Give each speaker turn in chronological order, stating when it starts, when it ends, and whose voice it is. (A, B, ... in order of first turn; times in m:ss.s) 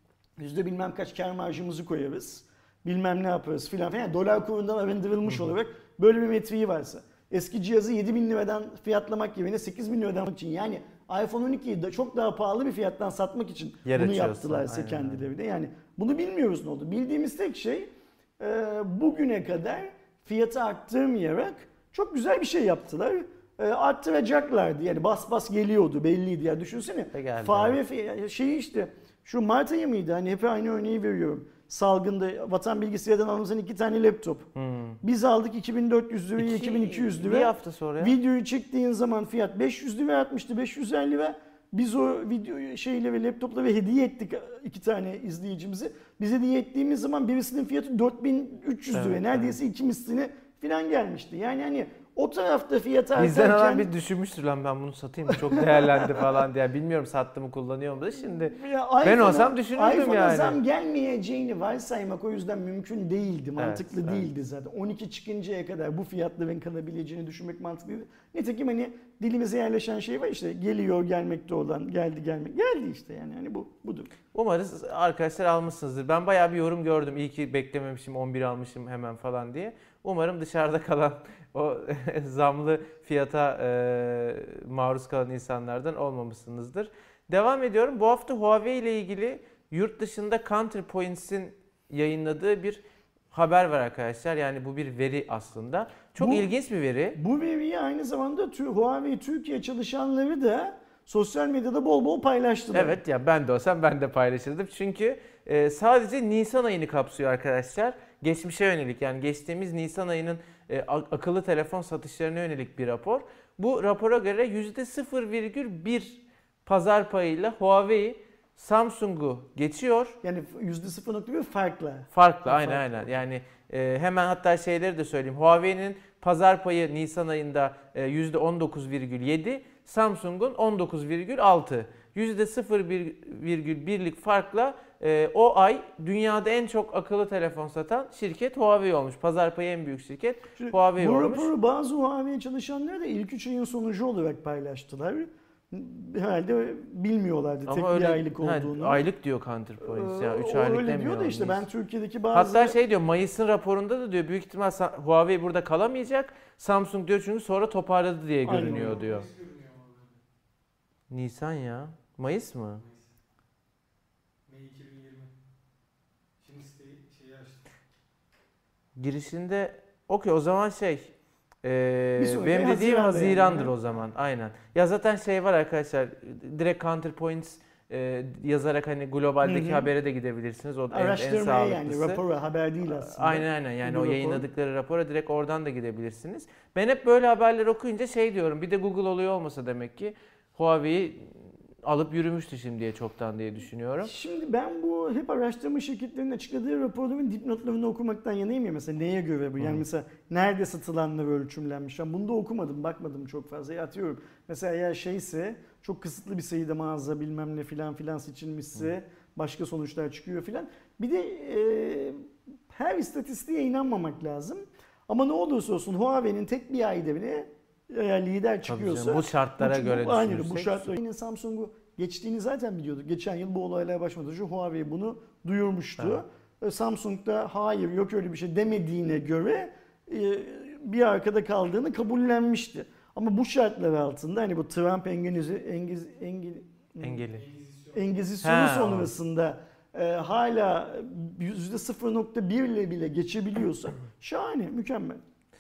0:00.4-0:34.5 A
0:13.8-0:15.2 B
0:27.1-0:27.8 B
0:34.6-0:35.0 B
0:35.0-0:53.9 A
0:36.4-0:38.2 B
0:48.9-0:49.6 B
0:53.2-1:00.6 B
0:55.3-0:56.3 A
0:58.3-1:14.1 A
1:03.6-1:04.3 B
1:14.3-1:37.2 B
1:36.2-1:36.5 A
1:37.2-1:43.0 A
1:42.7-2:00.2 B
2:00.2-2:03.2 A
2:02.1-2:21.5 B
2:20.6-2:29.0 A
2:27.7-2:31.7 B
2:29.8-2:32.8 A
2:32.3-2:39.3 B
2:38.4-2:39.0 A
2:38.5-2:40.2 C
2:41.1-2:42.8 B
2:42.8-2:43.1 C
2:44.5-2:45.3 C
2:46.4-2:47.7 C
2:49.0-2:51.1 B
2:51.6-3:02.2 B
2:52.2-2:53.7 A
2:59.4-2:59.9 A
3:00.9-3:04.4 A
3:02.9-3:14.1 B
3:14.0-3:57.3 A
3:38.7-3:40.9 B
3:57.0-3:57.4 B
3:57.3-3:58.2 C
3:57.9-4:05.2 A
3:58.4-3:59.1 B